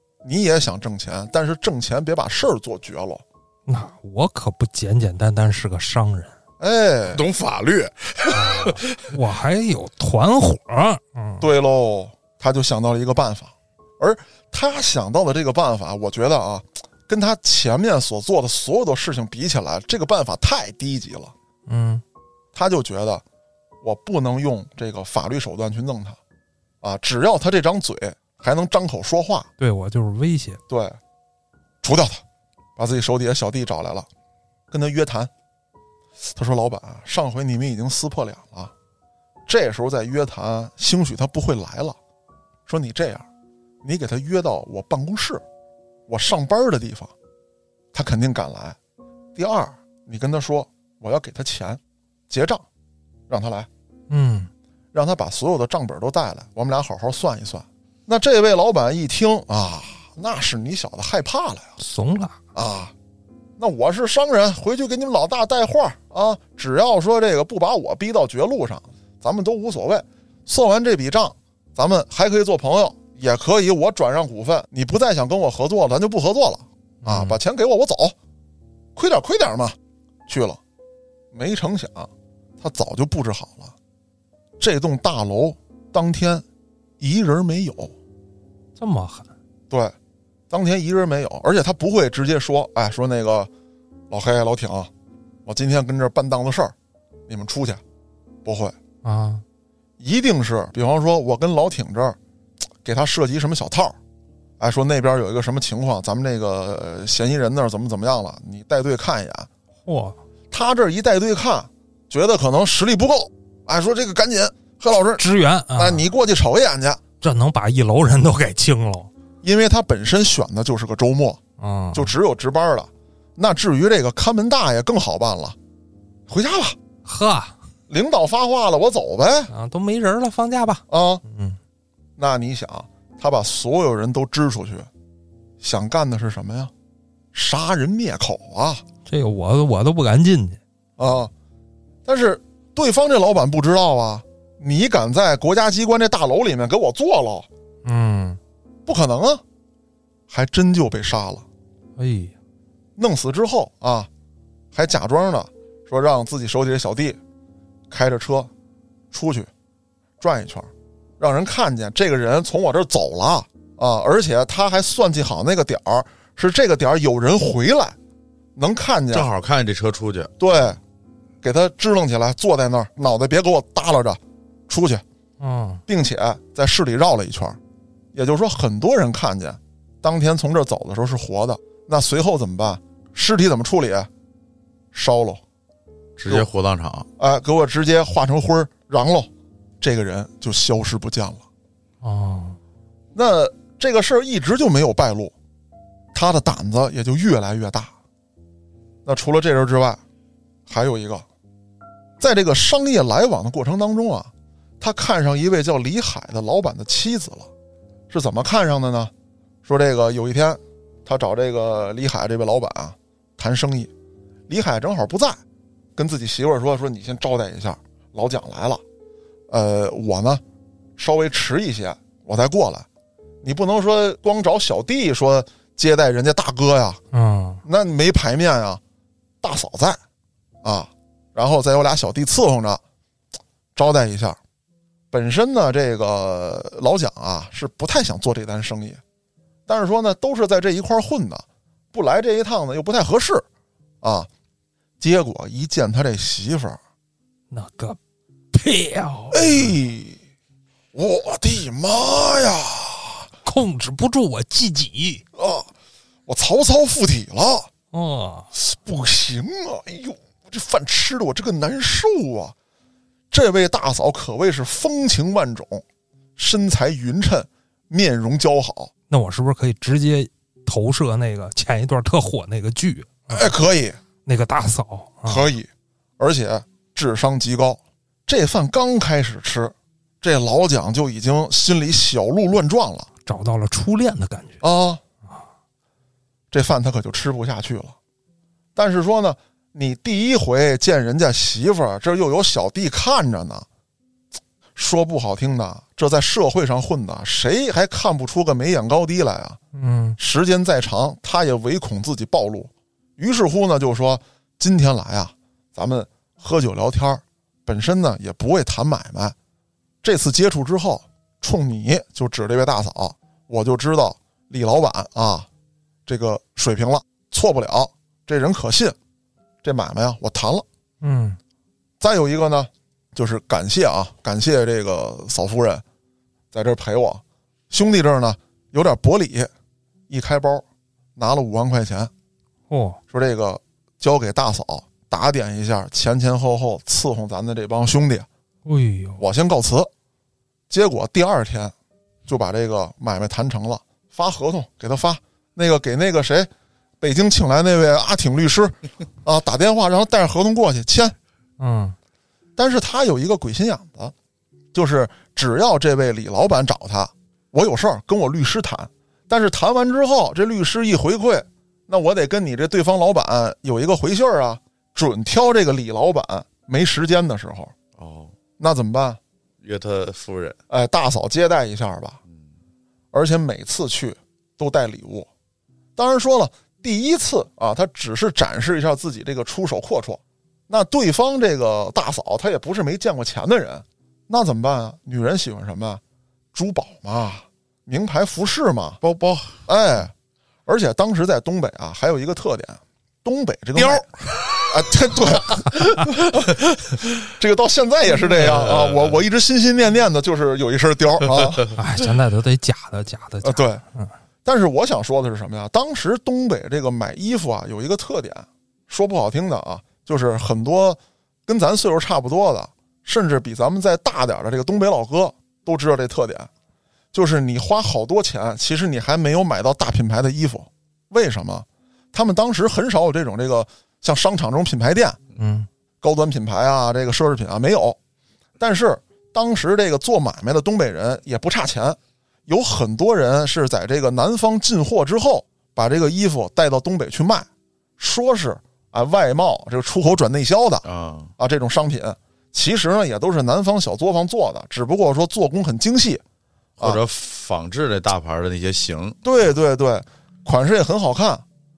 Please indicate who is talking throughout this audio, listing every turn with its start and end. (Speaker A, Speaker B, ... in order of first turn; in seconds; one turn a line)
Speaker A: 0.2-3.2
Speaker B: 3.7-6.3
Speaker A: 6.6-7.2
Speaker C: 7.1-9.0
Speaker B: 8.3-11.4
Speaker A: 11.4-21.3
Speaker B: 21.7-22.0
Speaker A: 22.5-23.2
Speaker A: 23.8-26.2
Speaker A: 26.8-29.5
Speaker B: 29.6-30.6
Speaker A: 30.7-31.0
Speaker A: 31.8-32.2
Speaker A: 32.8-34.1
Speaker A: 34.7-35.3
Speaker A: 36.4-38.7
Speaker A: 39.5-42.0
Speaker A: 42.7-43.2
Speaker A: 43.8-45.4
Speaker A: 46.1-47.1
Speaker A: 47.9-48.8
Speaker A: 49.4-52.6
Speaker A: 53.3-53.7
Speaker B: 54.1-54.5
Speaker A: 54.9-61.7
Speaker B: 61.8-62.4
Speaker A: 62.5-62.9
Speaker A: 63.6-78.2
Speaker B: 77.0-77.4
Speaker A: 79.0-79.8
Speaker A: 80.3-80.6
Speaker A: 81.3-82.1
Speaker A: 82.6-83.7
Speaker A: 84.6-86.4
Speaker A: 87.0-87.9
Speaker B: 88.8-89.3
Speaker A: 90.5-93.5
Speaker A: 94.1-94.9
Speaker A: 95.5-96.7
Speaker A: 97.3-97.8
Speaker A: 98.5-98.8
Speaker B: 99.0-99.4
Speaker A: 100.0-102.2
Speaker A: 102.8-104.0
Speaker A: 104.6-109.5
Speaker B: 109.9-110.2
Speaker A: 110.5-115.2
Speaker B: 115.2-116.0
Speaker A: 115.8-117.0
Speaker B: 117.2-119.1
Speaker A: 119.4-121.4
Speaker B: 121.6-122.1
Speaker A: 121.9-125.6
Speaker A: 126.3-126.8
Speaker B: 127.0-127.5
Speaker A: 127.9-129.5
Speaker B: 129.5-131.6
Speaker A: 130.9-131.2
Speaker A: 132.2-134.9
Speaker A: 135.6-136.7
Speaker A: 137.3-138.8
Speaker B: 139.1-140.6
Speaker A: 141.0-141.3
Speaker A: 142.1-147.5
Speaker B: 147.8-148.4
Speaker A: 148.9-149.4
Speaker A: 150.3-151.4
Speaker B: 152.0-152.3
Speaker A: 153.0-154.1
Speaker A: 154.7-157.2
Speaker A: 157.9-158.5
Speaker A: 159.1-159.5
Speaker A: 160.2-168.0
Speaker A: 168.6-169.3
Speaker C: 169.1-170.3
Speaker A: 170.4-170.8
Speaker A: 171.4-175.0
Speaker B: 175.4-175.8
Speaker A: 175.9-177.6
Speaker A: 178.1-184.1
Speaker A: 184.9-185.4
Speaker C: 186.2-187.1
Speaker A: 187.2-189.3
Speaker A: 189.8-191.4
Speaker B: 192.0-192.6
Speaker A: 193.2-195.3
Speaker A: 196.1-197.9
Speaker A: 199.1-200.0
Speaker A: 200.7-201.2
Speaker A: 202.2-207.5
Speaker A: 208.1-209.1
Speaker A: 209.7-213.9
Speaker A: 214.5-215.4
Speaker A: 216.0-218.8
Speaker A: 219.5-220.4
Speaker A: 221.0-222.9
Speaker A: 223.4-227.0
Speaker B: 227.1-227.6
Speaker A: 227.7-228.8
Speaker A: 229.4-230.0
Speaker A: 230.6-232.8
Speaker A: 233.8-234.4
Speaker A: 235.1-239.0
Speaker A: 239.7-243.4
Speaker A: 244.0-244.3
Speaker A: 245.0-246.8
Speaker B: 247.5-248.0
Speaker B: 248.5-249.8
Speaker A: 249.3-250.2
Speaker A: 250.9-253.3
Speaker B: 253.4-255.2
Speaker A: 255.3-255.7
Speaker A: 256.3-257.7
Speaker B: 257.9-258.5
Speaker A: 258.6-262.6
Speaker A: 263.3-265.8
Speaker A: 266.4-268.9
Speaker B: 269.1-273.5
Speaker A: 273.3-274.0
Speaker B: 274.3-275.5
Speaker A: 275.3-275.7
Speaker A: 276.2-283.1
Speaker B: 283.3-284.6
Speaker A: 284.6-285.0
Speaker A: 286.5-287.9
Speaker A: 288.8-293.7
Speaker A: 294.8-299.6
Speaker B: 299.7-300.2
Speaker A: 300.2-309.4
Speaker A: 310.0-315.5
Speaker A: 316.1-319.0
Speaker A: 319.6-320.6
Speaker B: 321.0-321.4
Speaker A: 322.0-325.8
Speaker A: 326.5-329.5
Speaker A: 330.1-330.6
Speaker A: 331.2-332.1
Speaker B: 332.7-333.0
Speaker A: 333.1-338.3
Speaker B: 338.6-339.2
Speaker A: 339.2-339.9
Speaker A: 340.7-341.7
Speaker A: 342.3-346.5
Speaker A: 347.0-351.1
Speaker B: 351.6-352.0
Speaker A: 352.6-354.1
Speaker A: 354.7-367.7
Speaker C: 368.0-368.3
Speaker A: 368.6-369.2
Speaker C: 369.6-370.6
Speaker A: 370.7-372.2
Speaker A: 373.1-375.3
Speaker A: 376.0-386.0
Speaker A: 386.5-389.0
Speaker C: 389.0-389.6
Speaker A: 389.7-390.1
Speaker A: 390.7-394.1
Speaker A: 394.7-396.6
Speaker A: 397.2-401.7
Speaker C: 398.4-399.2
Speaker B: 401.7-404.1
Speaker A: 403.4-403.8
Speaker A: 404.4-416.5
Speaker A: 417.1-425.2
Speaker B: 425.4-425.7
Speaker A: 426.0-428.0
Speaker A: 428.6-440.9
Speaker C: 440.8-441.3
Speaker A: 441.4-446.2
Speaker C: 446.8-449.2
Speaker A: 449.2-451.4